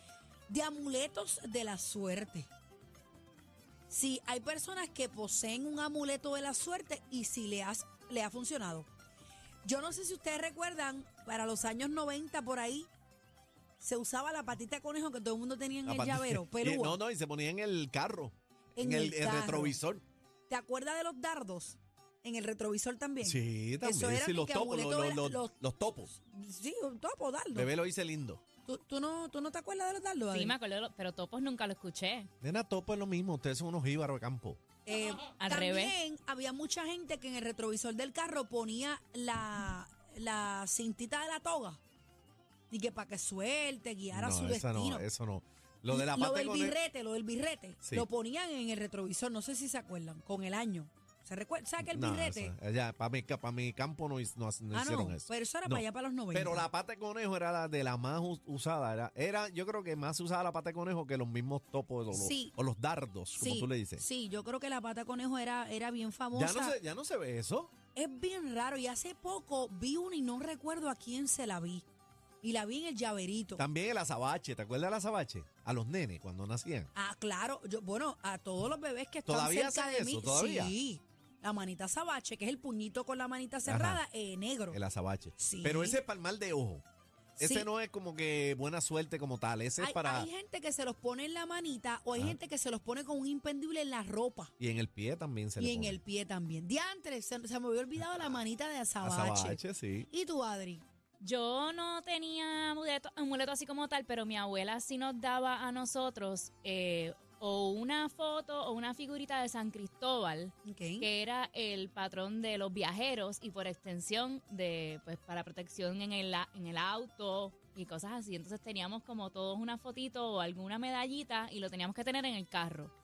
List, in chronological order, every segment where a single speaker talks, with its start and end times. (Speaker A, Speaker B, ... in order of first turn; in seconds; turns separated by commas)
Speaker A: 0.5-2.5, Speaker A: 3.9-8.9, Speaker A: 9.6-12.9, Speaker A: 13.8-17.0, Speaker B: 15.8-20.0, Speaker A: 18.8-19.8, Speaker A: 20.5-25.5, Speaker B: 23.2-26.1, Speaker A: 26.1-27.7, Speaker B: 27.5-28.4, Speaker A: 28.6-30.5, Speaker C: 30.3-32.3, Speaker B: 32.4-34.6, Speaker A: 34.9-41.8, Speaker C: 35.4-35.9, Speaker A: 42.7-45.0, Speaker B: 44.1-46.8, Speaker A: 45.9-52.5, Speaker B: 51.8-64.0, Speaker A: 54.7-56.6, Speaker A: 62.1-62.5, Speaker A: 63.4-66.8, Speaker B: 66.3-67.7, Speaker A: 67.9-71.8, Speaker A: 72.4-73.6, Speaker B: 73.6-76.9, Speaker A: 76.9-84.8, Speaker B: 79.2-80.7, Speaker B: 83.7-84.0, Speaker B: 84.7-86.8, Speaker A: 85.4-86.0, Speaker A: 87.4-87.7, Speaker B: 87.4-90.3, Speaker A: 89.8-94.5, Speaker B: 94.6-96.0, Speaker A: 95.6-100.8, Speaker B: 99.0-100.1, Speaker C: 101.2-122.9, Speaker A: 110.6-111.1